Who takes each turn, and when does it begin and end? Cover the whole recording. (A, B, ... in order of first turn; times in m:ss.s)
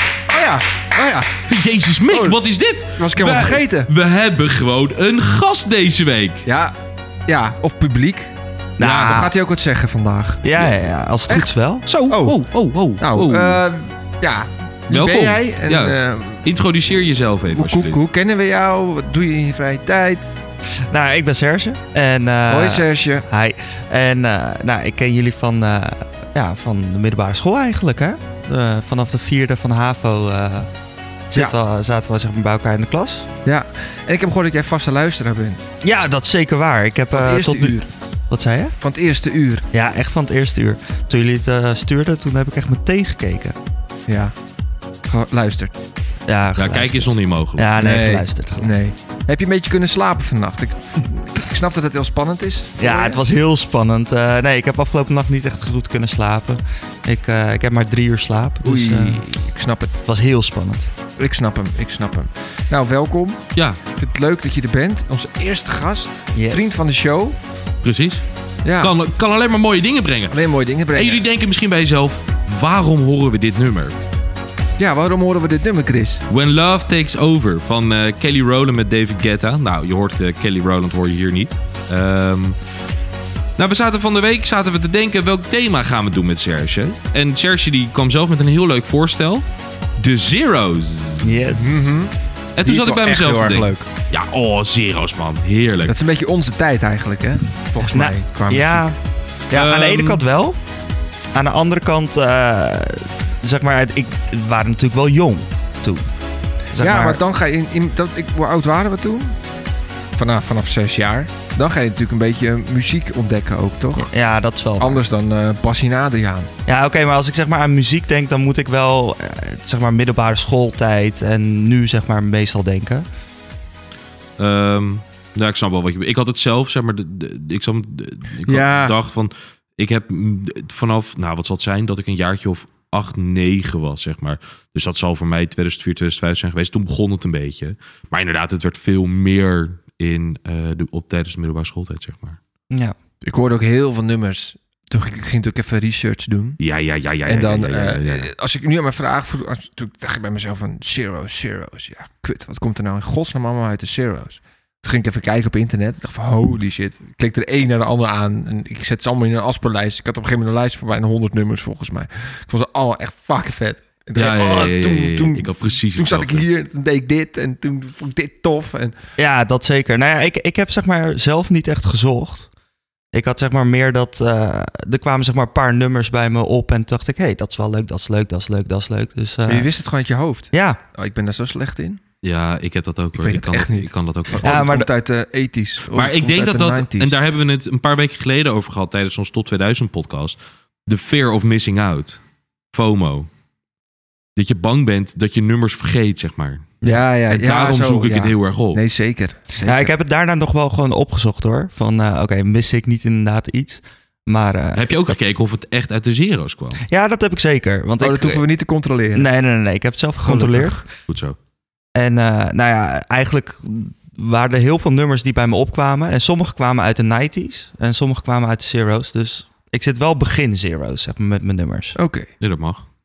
0:00.3-0:01.3 A
0:01.5-0:06.4 B
0:02.1-0:02.4 A
0:03.0-0:03.9 A
0:06.4-0:06.7 A
0:07.3-0:08.3 A
0:08.8-0:09.3 C
0:08.8-0:09.1 B
0:09.0-0:10.7 A
0:10.4-0:11.8 C
0:11.8-0:13.6 B
0:12.1-0:12.4 A
0:13.0-0:16.4 A
0:14.9-0:18.0 B
0:17.5-0:20.3 A
0:20.9-0:30.7 C
0:22.5-0:23.2 A
0:31.3-0:33.3 C
0:33.4-0:35.6 A
0:35.8-0:37.8 C
0:37.1-0:37.9 A
0:38.3-0:38.8 C
0:38.8-0:39.6 A
0:39.7-0:43.6 C
0:44.1-0:44.3 A
0:45.0-0:45.7 A
0:46.2-0:48.8 C
0:46.6-0:47.7 B
0:47.8-0:53.2 A
0:52.8-0:59.2 C
0:58.6-1:00.0 A
1:00.0-1:00.9 C
1:01.2-1:07.4 A
1:06.3-1:06.9 C
1:07.8-1:08.2 B
1:08.6-1:08.9 A
1:08.8-1:10.4 B
1:10.3-1:11.2 A
1:10.9-1:14.0 B
1:14.8-1:16.2 A
1:16.3-1:22.6 B
1:23.6-1:29.4 B
1:30.0-1:31.4 B
1:31.2-1:32.0 C
1:31.5-1:33.8 A
1:32.6-1:35.9 B
1:35.8-1:38.9 A
1:37.9-1:39.0 C
1:39.5-1:40.6 C
1:39.5-1:40.2 B
1:41.3-1:46.0 C
1:46.7-1:47.2 C
1:46.8-1:49.4 A
1:50.1-1:54.1 A
1:54.0-1:55.0 C
1:54.8-1:56.5 A
1:56.6-2:03.0 C
2:04.4-2:22.4 B
2:08.4-2:09.0 A
2:22.7-2:22.9 C
2:23.2-2:26.6 A
2:26.6-2:28.3 B
2:27.2-2:48.9 A
2:44.1-2:46.5 B
2:49.2-2:52.5 C
2:53.1-2:59.7 C
2:59.5-3:02.0 A
3:00.5-3:00.8 C
3:02.2-3:04.6 B
3:03.2-3:07.2 A
3:04.4-3:04.9 C
3:05.9-3:12.2 B
3:12.7-3:13.3 B
3:14.4-3:16.7 B
3:16.8-3:19.9 A
3:17.3-3:18.8 B
3:19.6-3:25.2 C
3:24.7-3:26.8 B
3:26.9-3:28.4 C
3:28.0-3:29.3 A
3:29.1-3:30.8 C
3:30.2-3:30.8 A
3:31.1-3:31.4 B
3:31.9-3:42.0 C
3:42.0-3:42.3 A
3:42.4-3:42.8 B